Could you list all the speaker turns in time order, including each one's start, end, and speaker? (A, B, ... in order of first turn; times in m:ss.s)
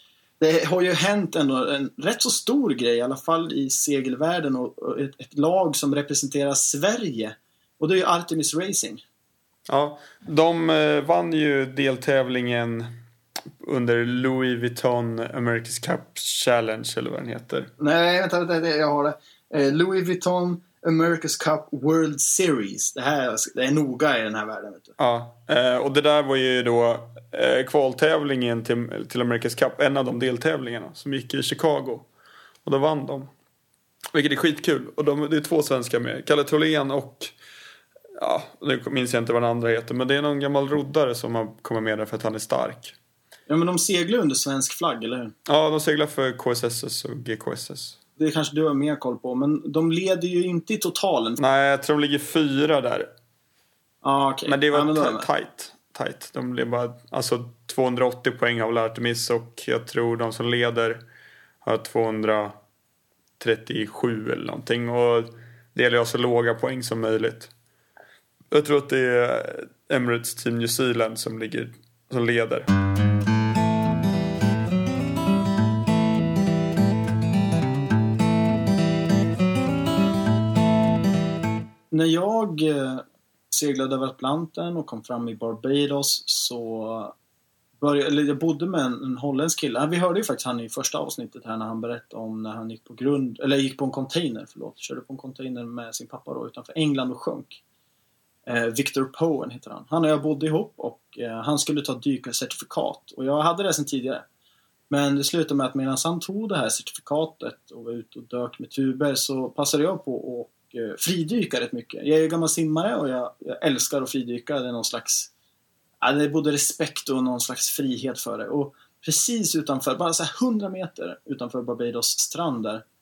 0:00.4-0:09.0 A
0:09.7-0:12.9 B
0:13.6-0:17.7 B
0:17.8-0:24.9 A
0:25.0-0:32.1 B
0:32.6-0:33.3 B
0:34.1-0:37.3 B
0:38.2-0:42.9 B
0:43.5-0:45.3 A
0:45.5-0:48.0 B
0:48.2-0:51.4 A
0:51.4-0:53.1 B
0:54.0-0:55.3 A
0:54.5-1:01.0 B
1:01.6-1:02.5 B
1:03.4-1:07.5 B
1:08.5-1:12.7 B
1:21.9-1:27.1 A
1:27.8-1:37.6 A
1:38.5-1:44.2 A
1:44.9-1:55.3 A
1:56.0-2:02.8 A